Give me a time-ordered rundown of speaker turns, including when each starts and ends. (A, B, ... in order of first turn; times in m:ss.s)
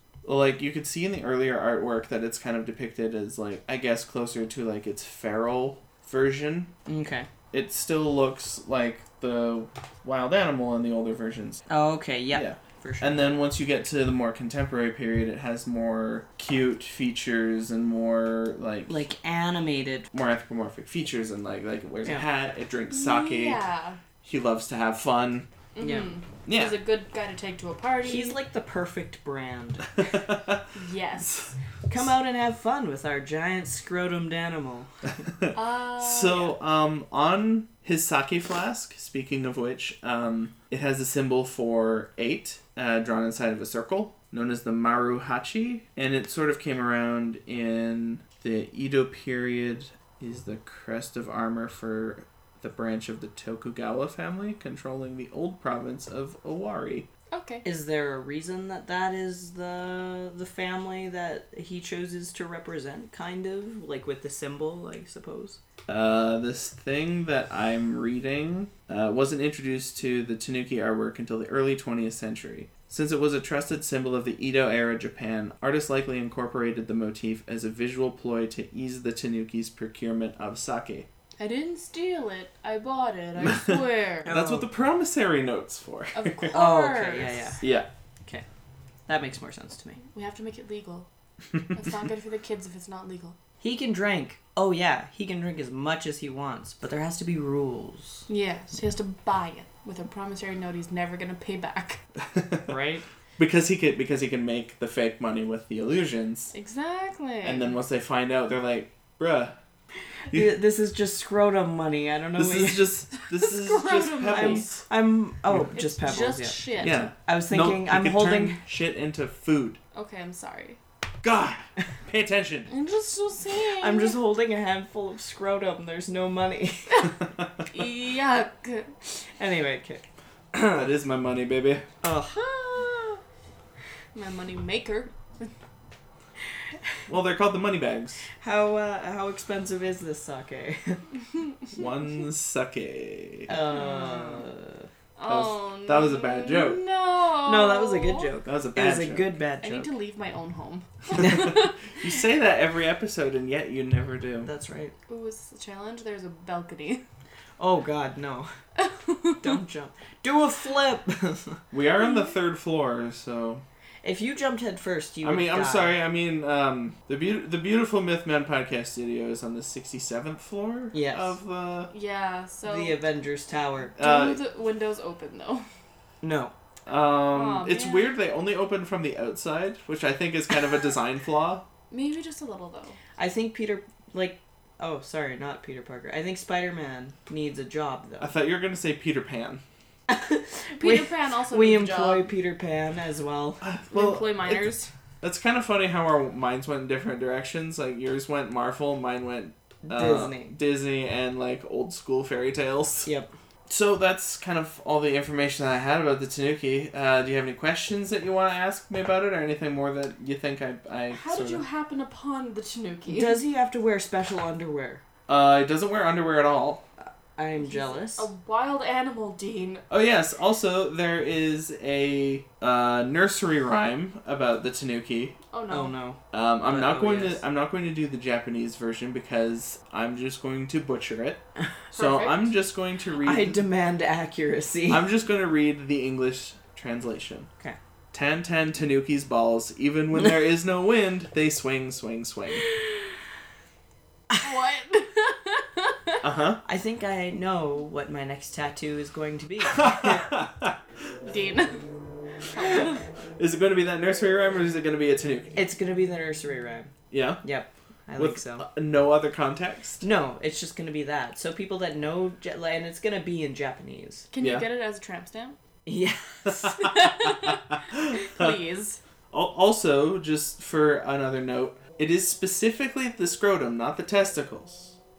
0:00.2-0:06.7 A
0:06.9-0:07.3 B
0:07.5-0:11.6 A
0:11.7-0:13.3 B
0:12.3-0:19.0 A
0:18.9-0:20.1 B
0:20.1-0:23.6 A
0:22.9-0:24.0 C
0:24.2-0:25.5 A
0:25.8-0:28.4 C
0:25.8-0:26.1 B
0:26.4-0:26.8 A
0:28.0-0:29.9 B
0:30.0-0:30.6 A
0:30.7-0:31.6 C
0:31.9-0:34.9 B
0:35.5-0:36.6 C
0:36.0-0:57.1 A
0:57.3-0:57.6 C
0:57.6-1:05.6 B
1:05.9-1:21.1 A
1:21.4-1:24.3 C
1:23.4-1:26.5 A
1:24.2-1:24.7 B
1:26.1-1:27.6 C
1:26.5-1:27.7 B
1:27.6-1:27.9 A
1:29.1-1:30.0 B
1:30.1-1:31.1 C
1:31.7-1:33.4 C
1:33.6-1:38.3 B
1:38.3-1:42.0 C
1:42.2-1:42.7 A
1:42.7-1:43.0 B
1:43.4-1:46.5 A
1:46.5-1:47.7 C
1:47.4-1:49.6 A
1:50.3-1:52.9 B
1:52.4-1:54.8 A
1:53.2-1:54.7 C
1:54.3-1:58.6 B
1:55.7-1:57.1 C
1:56.8-1:59.8 A
1:59.9-2:00.8 C
2:01.2-2:02.7 A
2:02.7-2:04.2 C
2:03.8-2:07.1 B
2:07.7-2:08.9 C
2:09.4-2:10.0 B
2:10.5-2:10.8 B
2:10.7-2:11.9 A
2:12.0-2:12.4 B
2:12.3-2:13.2 C
2:14.1-2:15.5 C
2:17.1-2:18.2 A
2:18.4-2:21.0 B
2:21.7-2:23.5 A
2:23.5-2:24.9 B
2:23.6-2:24.4 C
2:25.2-2:28.3 C
2:25.3-2:26.8 A
2:27.4-2:29.9 B
2:28.4-2:29.3 A
2:29.6-2:31.9 C
2:31.1-2:34.5 A
2:34.4-2:34.9 B
2:35.1-2:37.0 C
2:37.6-2:38.5 B
2:38.8-2:39.6 C
2:39.4-2:41.6 B
2:41.7-2:43.6 A
2:44.0-2:46.0 B
2:45.2-2:51.9 A
2:50.9-2:51.4 B
2:51.9-2:53.0 C
2:52.6-2:53.9 B
2:54.0-2:54.4 A
2:54.0-2:55.6 C
2:56.2-2:56.5 B
2:56.9-3:01.6 A
2:57.3-2:58.1 C
3:01.9-3:03.0 C
3:03.2-3:08.3 B
3:08.2-3:09.6 A
3:10.1-3:13.6 B
3:10.8-3:12.3 C
3:13.6-3:14.7 A
3:13.9-3:14.9 C
3:15.2-3:23.1 A
3:19.8-3:20.5 B
3:23.0-3:23.3 B
3:23.7-3:31.6 A
3:31.1-3:33.4 C
3:33.1-3:35.0 B
3:35.3-3:36.8 A
3:37.0-3:38.3 B
3:37.6-3:39.8 C
3:39.9-3:45.4 A
3:45.5-3:45.9 C
3:45.7-3:47.4 B
3:46.3-3:51.4 A
3:51.9-3:52.5 C
3:51.9-3:53.6 A
3:53.2-3:55.1 B
3:54.9-3:57.5 A
3:58.1-4:02.6 A
4:04.4-4:06.2 C
4:06.2-4:06.6 A
4:06.6-4:10.3 B
4:09.7-4:10.8 A
4:11.2-4:11.9 C
4:12.4-4:13.0 C
4:13.4-4:15.6 A
4:15.6-4:18.6 B
4:17.1-4:17.4 A
4:18.2-4:20.0 A
4:20.0-4:24.3 B
4:24.3-4:25.6 C
4:24.4-4:24.6 A
4:25.9-4:26.8 B
4:26.4-4:28.6 A
4:26.8-4:29.0 C
4:29.3-4:35.0 A